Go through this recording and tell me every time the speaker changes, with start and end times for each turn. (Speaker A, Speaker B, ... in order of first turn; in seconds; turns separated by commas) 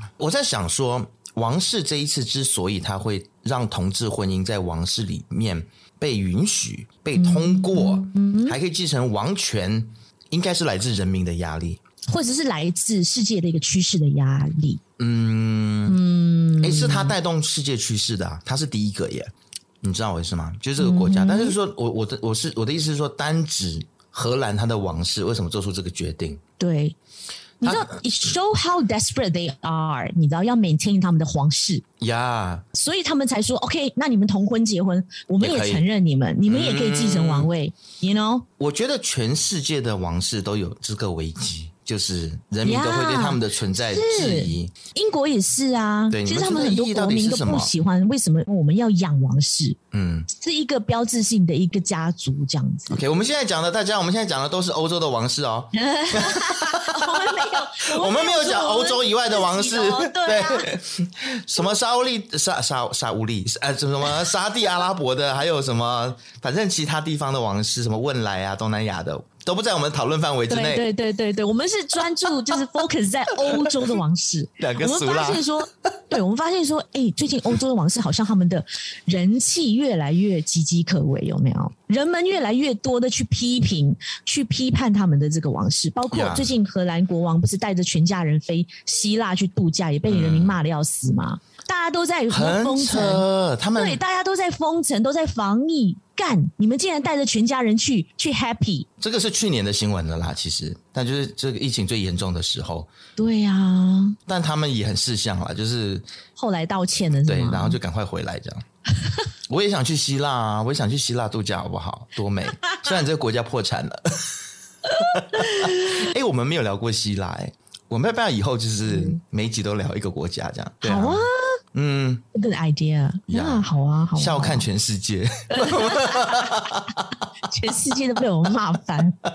Speaker A: 0.2-11.8, Speaker B: 7.2-8.6, Speaker B: 12.1-14.8, Speaker A: 15.0-16.0, Speaker B: 15.9-17.2, Speaker A: 16.6-19.3, Speaker A: 19.8-26.4, Speaker B: 20.8-21.6, Speaker B: 26.6-27.0, Speaker B: 27.6-31.8, Speaker A: 27.6-27.9, Speaker A: 32.0-32.6, Speaker B: 32.7-38.5, Speaker A: 35.4-35.9, Speaker A: 36.5-37.5, Speaker A: 38.6-44.7, Speaker B: 42.6-49.8, Speaker A: 46.1-47.7, Speaker A: 49.9-50.3, Speaker B: 50.3-53.0, Speaker A: 52.9-70.8, Speaker B: 55.8-60.7, Speaker B: 70.5-93.2, Speaker A: 74.6-75.5, Speaker A: 86.1-86.5, Speaker A: 90.1-90.6, Speaker A: 92.3-94.0, Speaker B: 93.8-98.9, Speaker A: 99.0-102.9, Speaker B: 103.2-104.2, Speaker A: 104.3-106.1, Speaker B: 106.4-107.8, Speaker A: 107.2-108.7, Speaker A: 109.5-114.3, Speaker A: 114.9-122.2, Speaker B: 115.3-116.1, Speaker B: 118.8-119.2, Speaker B: 120.8-121.5, Speaker B: 122.3-124.7, Speaker A: 123.3-127.1, Speaker B: 125.5-126.8, Speaker B: 127.5-129.2